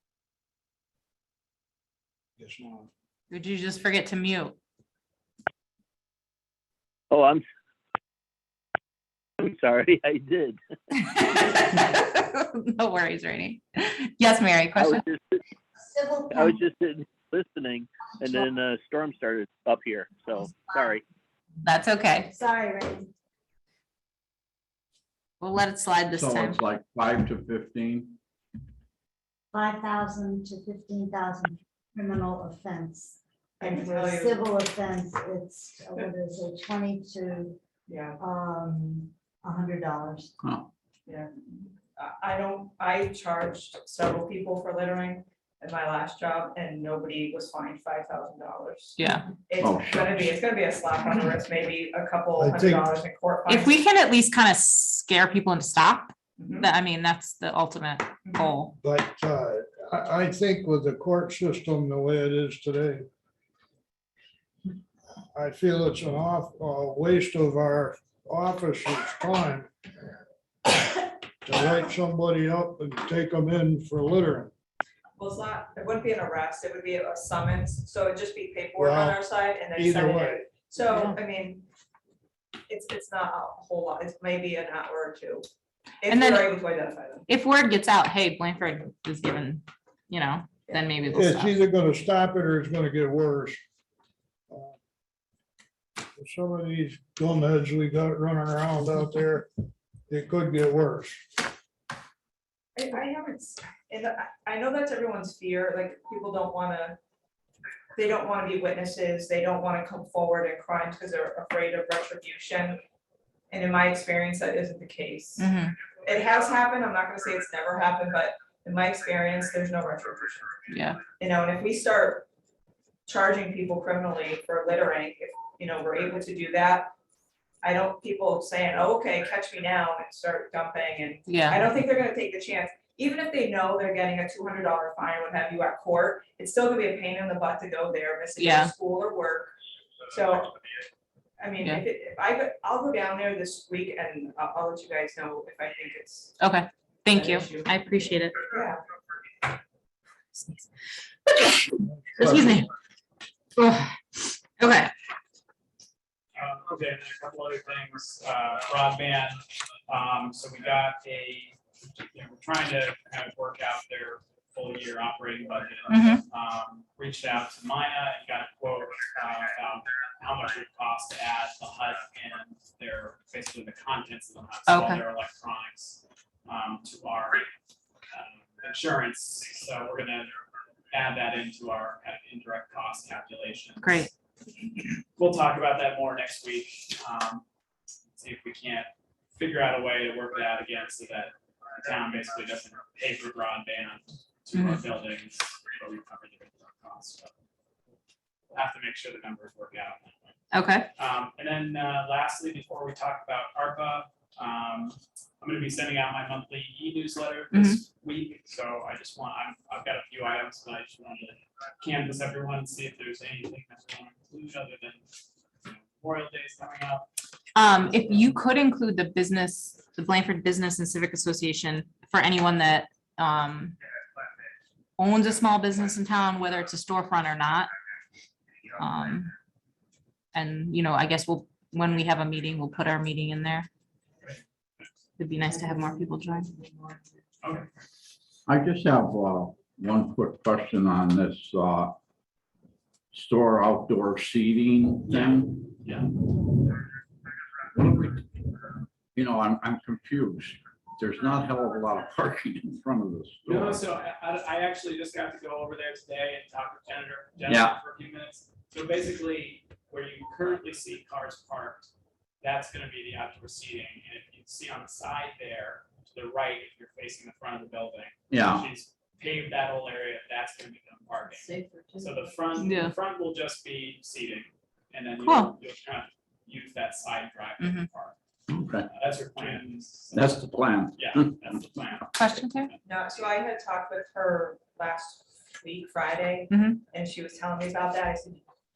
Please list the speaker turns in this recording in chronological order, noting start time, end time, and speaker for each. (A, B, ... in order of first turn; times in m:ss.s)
0:02.4-0:02.9 A
0:03.3-0:04.6 B
0:07.1-0:07.4 C
0:09.4-0:10.6 C
0:11.0-0:15.0 B
0:14.8-0:15.3 C
0:15.8-0:16.6 D
0:16.6-0:21.0 C
0:21.6-0:22.3 B
0:22.3-0:23.1 D
0:25.4-0:26.6 B
0:26.1-0:28.2 E
0:29.5-0:37.6 D
0:33.6-0:34.5 F
0:37.9-0:38.2 F
0:38.2-0:40.3 D
0:40.4-0:40.7 E
0:41.1-0:53.8 F
0:49.0-0:49.3 B
0:49.6-0:50.4 E
0:52.4-0:52.9 A
0:53.5-0:58.8 B
0:56.4-0:56.7 F
0:58.3-0:58.5 F
0:58.8-1:03.0 A
1:05.3-1:09.7 A
1:11.4-1:14.5 A
1:15.2-1:21.7 F
1:18.8-1:20.5 A
1:20.8-1:21.2 B
1:22.7-1:25.4 F
1:26.0-1:27.3 F
1:26.1-1:26.6 B
1:27.3-1:31.5 B
1:31.1-1:33.6 A
1:34.5-1:34.8 A
1:36.2-1:39.5 A
1:40.1-1:41.2 A
1:42.8-1:47.0 F
1:48.0-1:52.8 F
1:53.5-1:55.5 F
1:55.4-1:55.8 B
1:56.0-2:00.6 F
2:00.7-2:01.0 B
2:01.2-2:02.3 F
2:03.1-2:06.9 F
2:07.6-2:19.6 F
2:11.3-2:11.6 B
2:18.4-2:18.7 B
2:20.1-2:20.6 F
2:21.4-2:26.4 F
2:26.4-2:28.4 B
2:27.1-2:27.7 F
2:28.5-2:28.8 F
2:30.4-2:30.6 B
2:31.8-2:32.6 A
2:32.2-2:32.7 B
2:33.6-2:34.9 B
2:36.4-2:57.5 G
2:45.9-2:46.2 B
2:54.7-2:55.0 B
2:58.1-3:00.4 G
3:00.9-3:04.1 G
3:03.8-3:04.1 B
3:05.2-3:07.4 G
3:08.2-3:17.3 G
3:14.5-3:14.8 B
3:18.5-3:20.4 G
3:20.5-3:20.9 B
3:21.0-3:35.1 G
3:27.5-3:27.8 B
3:35.6-3:37.1 G
3:37.6-3:43.8 B
3:45.0-3:47.7 B
3:48.8-3:49.3 B
3:50.3-3:53.7 B
3:55.2-3:56.5 B
3:57.4-3:57.7 G
3:58.5-4:02.0 E
4:03.1-4:05.7 E
4:05.1-4:06.1 G
4:07.8-4:08.2 E
4:09.1-4:13.8 E
4:13.4-4:38.2 G
4:17.5-4:17.8 E
4:28.3-4:28.7 E
4:32.6-4:32.9 B
4:35.2-4:35.5 B
4:37.6-4:37.9 B
4:38.5-4:38.9 E
4:38.9-4:42.8 G
4:40.1-4:41.5 E
4:42.2-4:42.7 B
4:42.8-4:48.4 F
4:46.5-4:46.8 B